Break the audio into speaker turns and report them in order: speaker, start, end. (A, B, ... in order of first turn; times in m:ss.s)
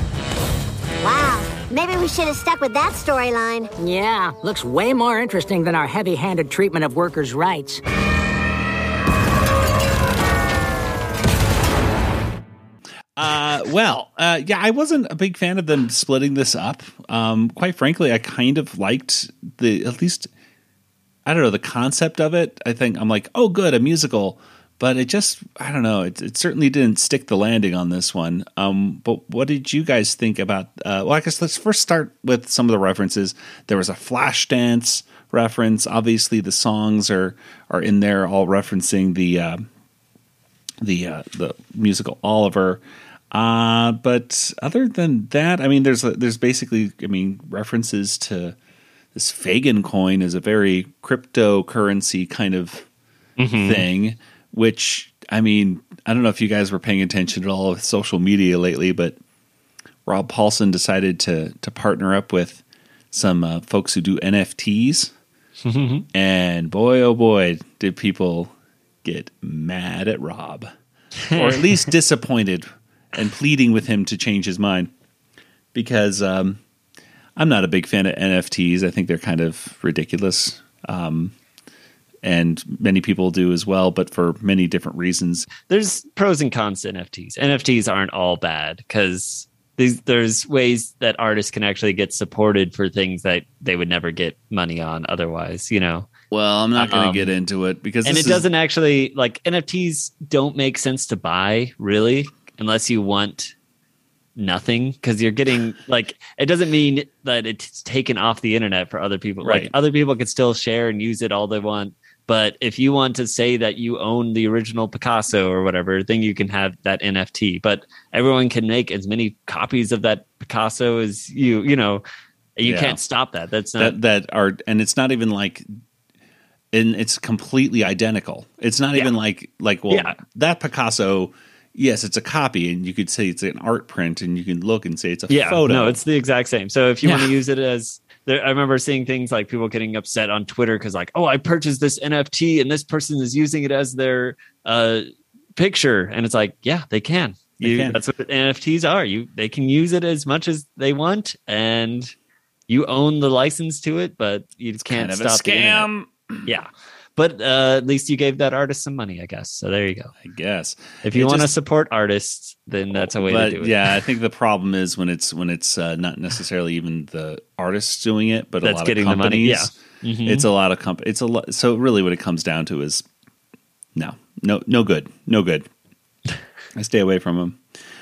0:01.0-0:03.7 A
0:03.8-0:07.8 B
0:13.2-0:20.3 C
0:21.2-0:39.7 C
0:40.8-0:48.6 C
0:49.1-0:52.9 C
0:53.4-0:53.8 D
0:53.6-0:59.2 C
1:00.0-1:05.1 C
1:05.6-1:06.0 D
1:06.1-1:08.5 C
1:09.0-1:10.7 C
1:11.2-1:11.9 D
1:11.3-1:14.9 C
1:15.7-1:16.6 C
1:17.4-1:21.3 C
1:22.2-1:25.5 C
1:25.6-1:36.1 D
1:36.3-1:38.5 C
1:36.8-1:37.3 D
1:38.0-1:43.5 D
1:44.4-2:02.0 D
1:49.4-1:49.7 C
2:02.6-2:04.0 D
2:02.6-2:03.0 C
2:03.8-2:05.7 C
2:06.7-2:16.0 C
2:09.9-2:10.2 D
2:15.3-2:32.1 D
2:17.0-2:17.4 C
2:27.6-2:28.0 C
2:32.7-2:35.9 D
2:34.8-2:36.6 C
2:36.4-2:40.1 D
2:40.2-2:41.5 C
2:41.0-2:44.0 D
2:42.9-2:53.0 C
2:48.6-2:50.5 D
2:53.9-2:55.7 C
2:56.7-2:57.6 C